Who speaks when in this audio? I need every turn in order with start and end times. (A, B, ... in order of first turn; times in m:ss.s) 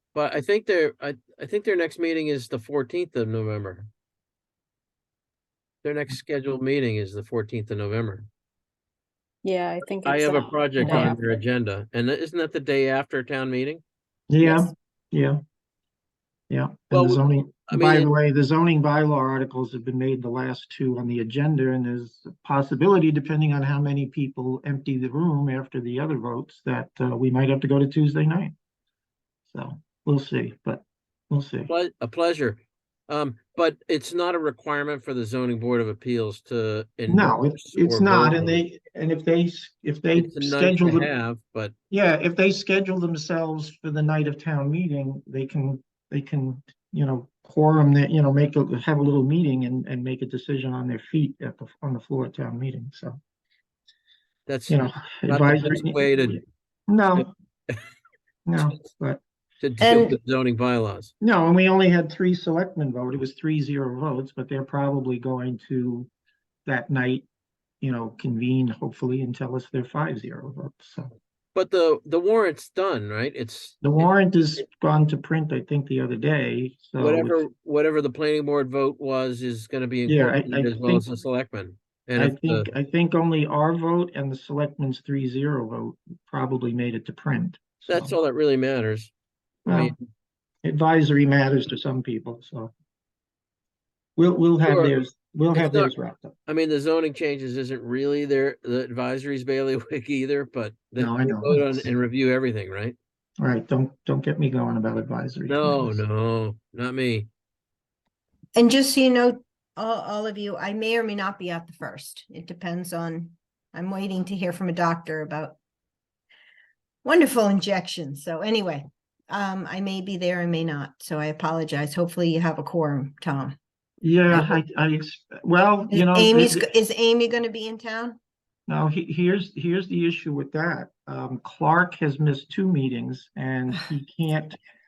0:00.1-0:03.9 A
0:05.8-0:08.3 A
0:09.4-0:11.2 B
0:10.0-0:13.8 A
0:10.8-0:11.2 C
0:14.3-0:15.4 C
0:14.4-0:14.7 B
0:16.5-0:28.5 C
0:16.9-0:18.1 A
0:29.5-0:31.7 C
0:31.7-0:38.6 A
0:37.1-0:41.1 C
0:40.1-0:41.7 A
0:41.9-0:53.2 C
0:54.5-0:56.4 A
0:54.7-0:57.3 C
0:57.2-0:57.8 A
0:58.4-0:59.2 C
0:59.6-1:01.1 A
0:59.8-1:00.2 D
1:01.2-1:06.1 C
1:06.6-1:07.2 C
1:07.8-1:11.1 C
1:11.5-1:14.1 A
1:13.8-1:17.4 C
1:17.0-1:22.7 A
1:20.0-1:21.1 C
1:22.2-1:28.1 C
1:27.8-1:29.1 A
1:29.6-1:29.9 C
1:29.7-1:30.0 A
1:30.6-1:32.7 C
1:34.2-1:36.3 C
1:34.6-1:34.9 A
1:35.5-1:35.9 A
1:36.5-1:43.0 A
1:41.0-1:41.9 C
1:43.4-1:46.0 C
1:45.5-1:47.3 A
1:48.6-1:55.6 D
1:57.0-2:03.6 D
2:04.0-2:06.6 C
2:05.9-2:08.2 D
2:08.7-2:14.6 C